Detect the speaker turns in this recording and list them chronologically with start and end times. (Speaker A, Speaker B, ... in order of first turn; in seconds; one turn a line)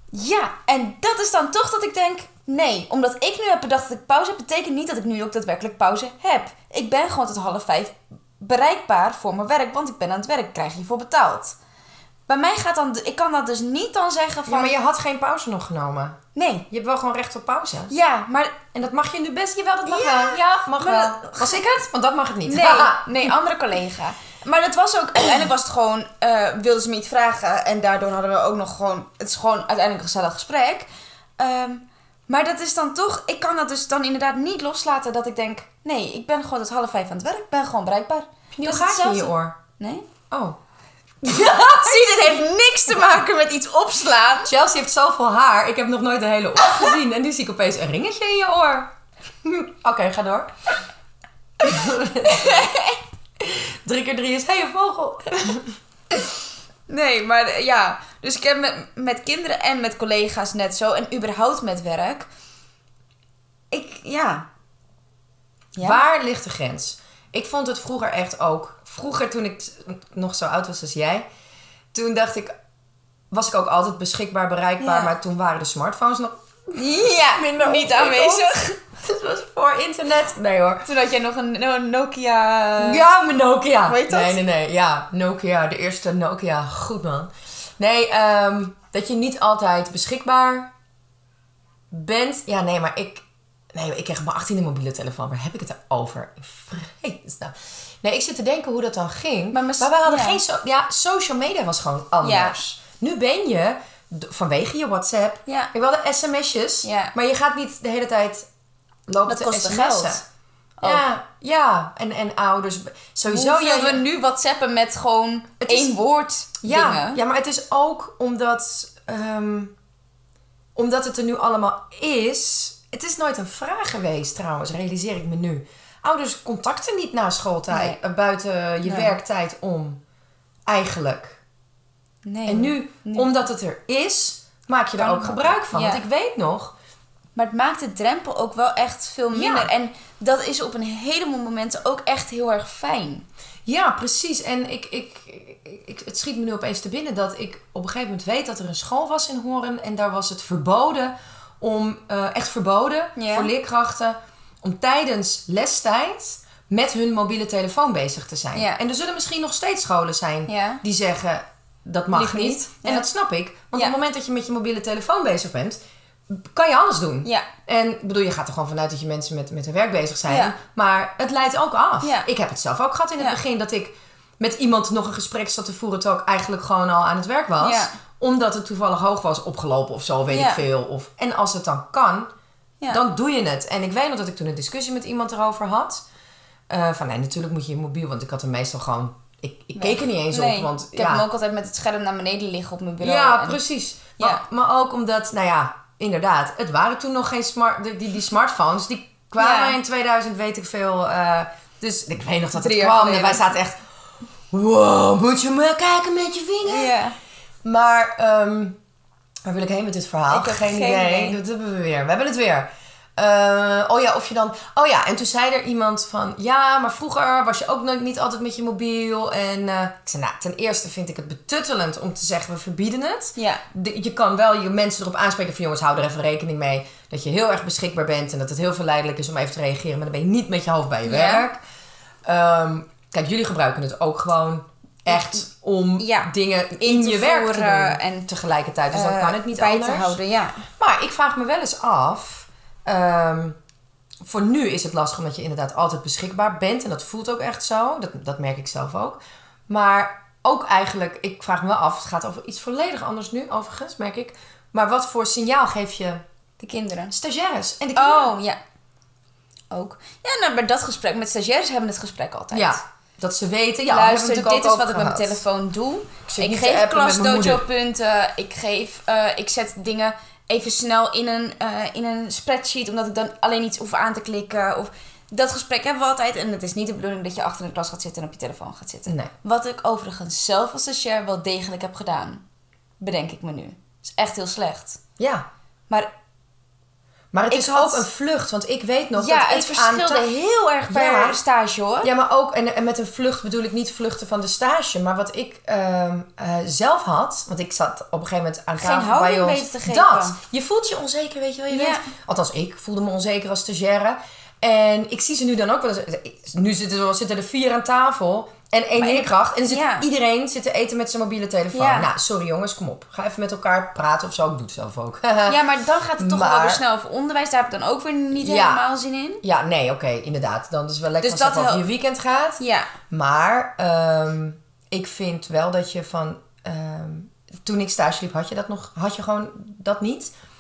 Speaker A: 0.1-11.6
Speaker A: 12.3-14.7
Speaker B: 14.5-16.2
Speaker A: 16.4-16.6
Speaker B: 16.7-17.9
Speaker A: 17.9-18.6
Speaker B: 18.7-23.3
Speaker A: 19.9-21.6
Speaker A: 22.5-30.9
Speaker A: 31.4-40.1
Speaker B: 38.5-39.6
Speaker B: 40.3-40.6
Speaker B: 41.2-42.4
Speaker A: 41.3-44.5
Speaker B: 44.5-48.9
Speaker B: 49.4-50.5
Speaker B: 51.6-52.7
Speaker A: 52.2-53.0
Speaker B: 53.4-55.8
Speaker A: 56.9-62.3
Speaker A: 63.7-64.5
Speaker A: 65.8-66.0
Speaker B: 65.8-71.3
Speaker B: 71.9-72.5
Speaker B: 73.3-80.9
Speaker A: 74.8-75.1
Speaker A: 76.8-78.8
Speaker A: 80.8-83.0
Speaker B: 82.8-90.7
Speaker A: 83.9-84.4
Speaker B: 91.9-108.5
Speaker A: 99.5-100.4
Speaker A: 102.2-102.6
Speaker A: 106.8-107.1
Speaker B: 109.1-110.2
Speaker A: 109.3-110.2
Speaker A: 110.8-111.1
Speaker B: 110.8-114.0
Speaker A: 113.3-117.2
Speaker B: 115.6-116.0
Speaker B: 116.6-119.7
Speaker B: 120.8-130.0
Speaker A: 127.7-128.0
Speaker A: 128.8-129.1
Speaker B: 130.7-131.4
Speaker A: 132.2-133.3
Speaker B: 132.5-136.7
Speaker A: 135.0-136.0
Speaker A: 137.4-143.3
Speaker B: 139.3-139.7
Speaker B: 143.7-182.3
Speaker A: 153.2-153.5
Speaker A: 158.5-158.8
Speaker A: 160.5-160.8
Speaker A: 162.1-163.1
Speaker A: 170.3-170.6
Speaker A: 172.0-172.3
Speaker A: 177.6-177.9
Speaker A: 180.3-180.6
Speaker B: 182.9-186.1
Speaker B: 186.7-191.2
Speaker A: 189.8-193.6
Speaker B: 193.0-203.8
Speaker A: 199.4-199.8
Speaker A: 202.6-203.4
Speaker B: 204.5-206.9
Speaker A: 206.7-207.2
Speaker B: 207.6-208.8
Speaker B: 209.4-231.6
Speaker A: 210.3-211.4
Speaker A: 223.4-223.6
Speaker A: 231.1-231.5
Speaker B: 232.2-240.2
Speaker A: 235.1-235.4
Speaker A: 236.0-238.3
Speaker A: 238.9-240.7
Speaker B: 240.8-243.6
Speaker B: 244.2-256.2
Speaker A: 256.6-257.1
Speaker B: 257.1-258.3
Speaker A: 258.0-258.6
Speaker A: 259.7-262.8
Speaker B: 262.5-265.4
Speaker A: 263.9-282.4
Speaker B: 266.3-267.6
Speaker B: 279.1-279.3
Speaker A: 283.0-285.0
Speaker B: 285.2-285.5
Speaker B: 287.3-290.3
Speaker A: 287.5-288.1
Speaker A: 289.2-292.1
Speaker B: 290.9-291.4
Speaker B: 292.0-315.6
Speaker A: 298.8-300.4
Speaker A: 301.7-302.1
Speaker A: 309.0-310.1
Speaker A: 311.7-312.1
Speaker A: 315.5-319.4
Speaker B: 316.2-316.8
Speaker B: 318.4-318.8
Speaker B: 319.4-330.3
Speaker A: 321.2-321.9
Speaker A: 322.6-322.9